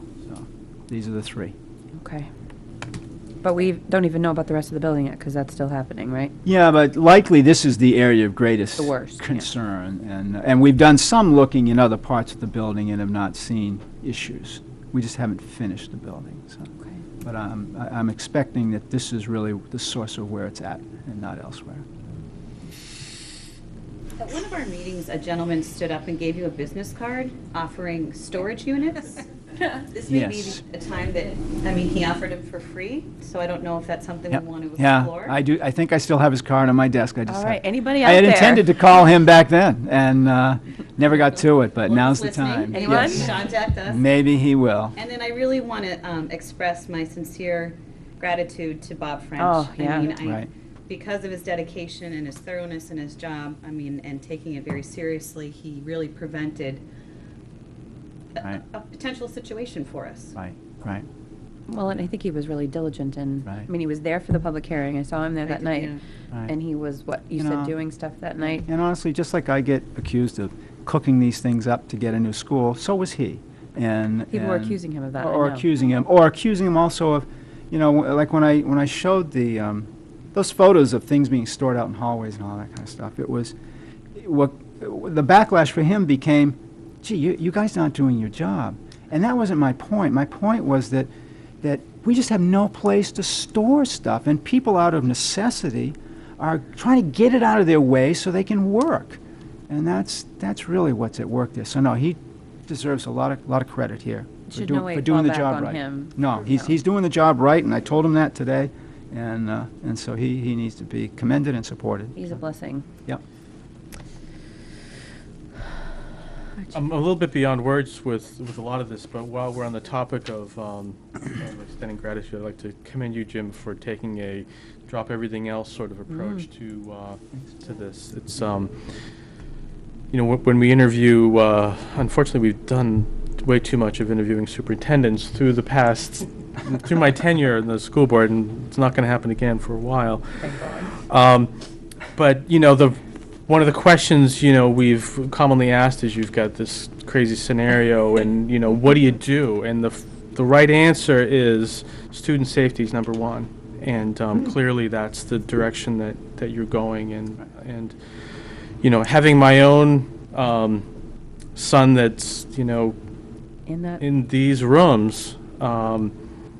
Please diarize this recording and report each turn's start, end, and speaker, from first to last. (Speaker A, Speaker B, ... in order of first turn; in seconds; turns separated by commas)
Speaker A: 0.2-1.5, Speaker B: 2.0-2.3, Speaker B: 3.4-6.3, Speaker A: 6.4-16.7, Speaker B: 8.8-9.5, Speaker A: 17.2-21.9, Speaker C: 24.2-35.4, Speaker A: 30.1-30.6, Speaker A: 34.3-43.3, Speaker B: 37.3-38.7, Speaker C: 41.8-44.0, Speaker B: 42.7-43.3, Speaker A: 43.9-45.0, Speaker C: 45.0-56.8, Speaker B: 49.4-50.1, Speaker A: 50.2-50.5, Speaker C: 58.3-60.4, Speaker A: 60.4-61.1, Speaker B: 61.7-65.9, Speaker C: 65.5-66.0, Speaker B: 66.5-68.7, Speaker A: 67.4-67.8, Speaker A: 68.7-83.5, Speaker B: 74.3-75.6, Speaker A: 84.1-91.1, Speaker A: 91.6-112.2, Speaker B: 104.5-106.7, Speaker B: 112.2-112.8, Speaker D: 116.7-128.7, Speaker B: 126.1-126.5, Speaker D: 130.1-141.5, Speaker B: 140.4-140.9, Speaker D: 142.1-157.9, Speaker D: 158.8-160.8, Speaker D: 161.5-163.0, Speaker B: 163.7-164.0, Speaker D: 164.0-166.1